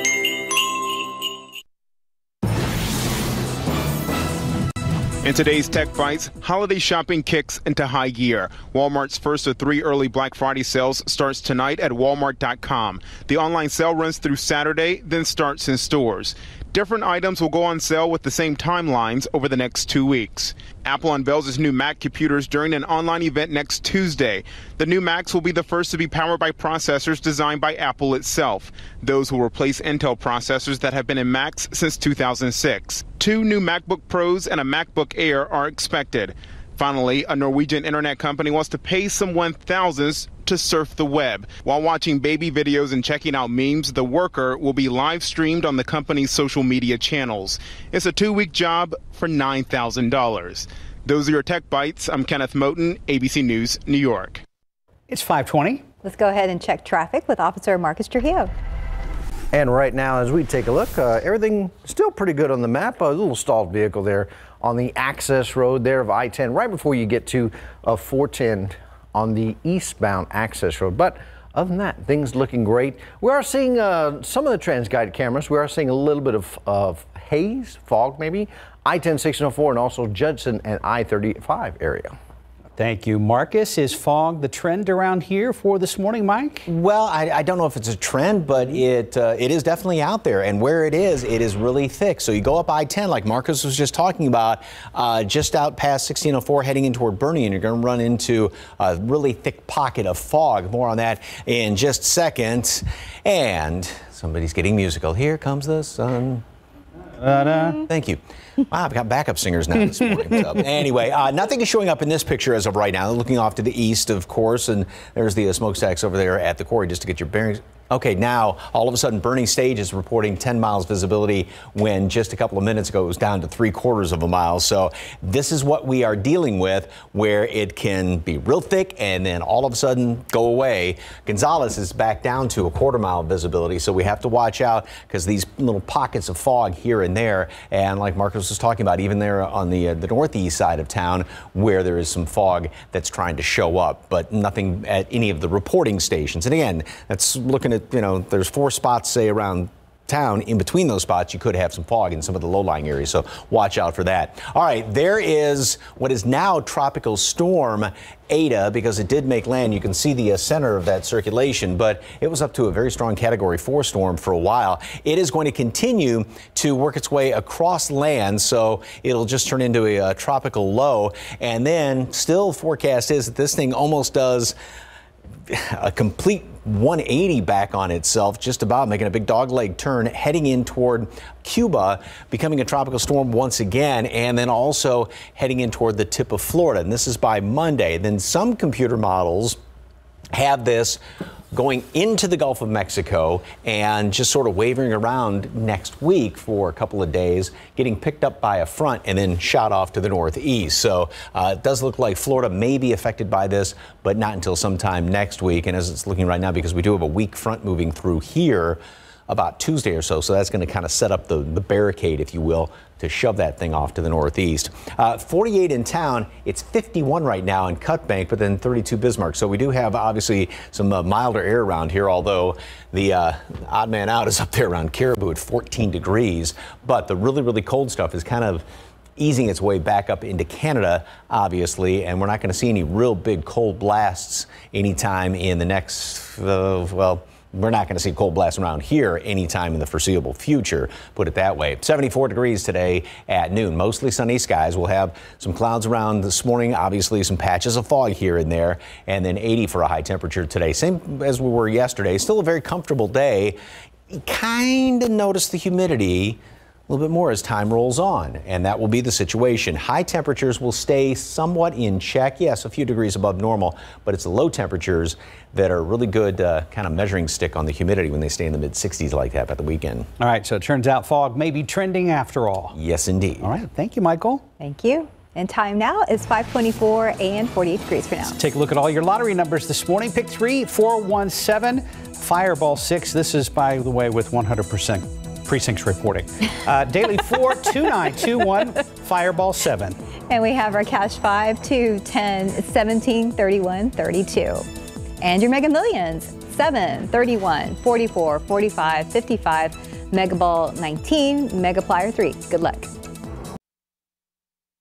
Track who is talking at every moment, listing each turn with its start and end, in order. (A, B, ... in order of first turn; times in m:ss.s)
0:05.2-0:54.4 A
0:55.1-0:55.8 B
0:56.0-0:58.5 C
0:59.5-1:22.1 D
1:22.8-1:26.7 B
1:26.6-1:46.4 E
1:47.2-1:47.8 B
1:47.8-2:54.5 E
2:55.5-3:09.6 E
3:10.3-3:11.0 E
3:11.5-3:48.6 E
3:49.2-4:13.6 E
4:14.1-4:30.1 E
4:30.2-4:32.8 B
4:32.7-4:33.5 E
4:33.4-4:34.4 B
4:34.6-4:38.4 C
4:38.3-4:50.0 B
4:50.3-4:54.6 C
4:55.2-5:02.9 C